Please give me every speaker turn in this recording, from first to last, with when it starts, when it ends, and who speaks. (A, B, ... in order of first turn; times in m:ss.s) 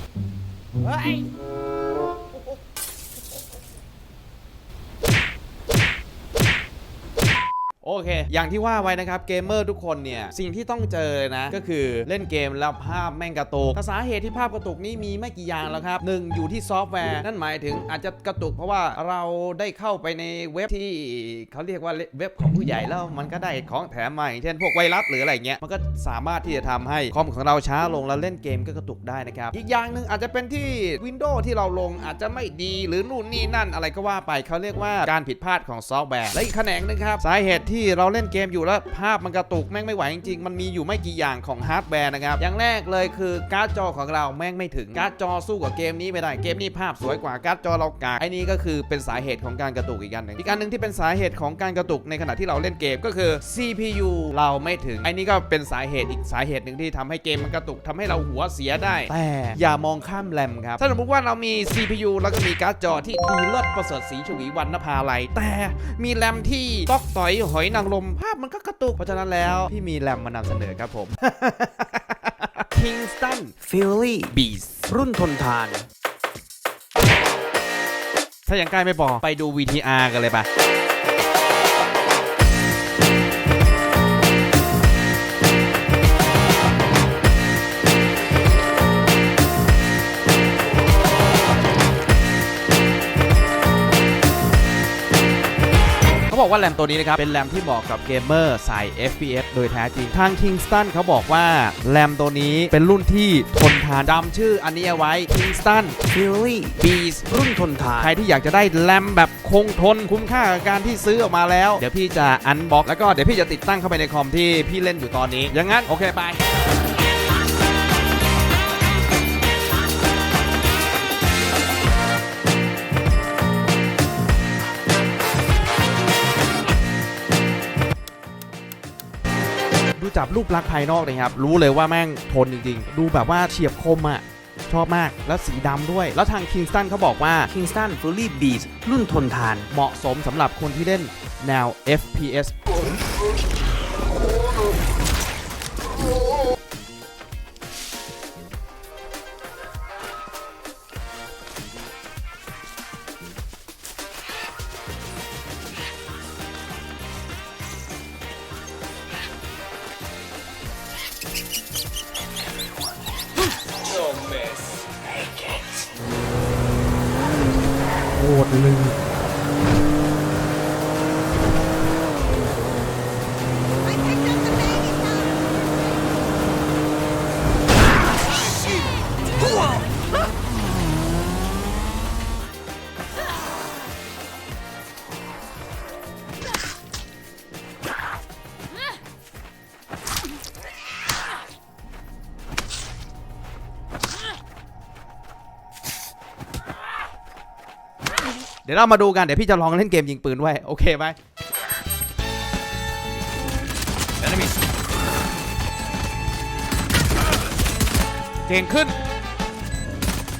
0:00.8-0:01.2 A
0:07.8-1:13.5 A
1:13.6-1:14.4 B
1:14.3-1:14.9 A
1:14.9-1:15.8 B
1:18.4-1:20.4 A
1:36.3-1:46.0 A
1:46.1-1:48.1 B
1:48.0-1:56.4 A
2:10.0-2:17.5 A
2:17.5-2:19.7 B
2:19.7-2:22.6 A
3:18.6-3:21.2 A
3:28.4-3:28.9 A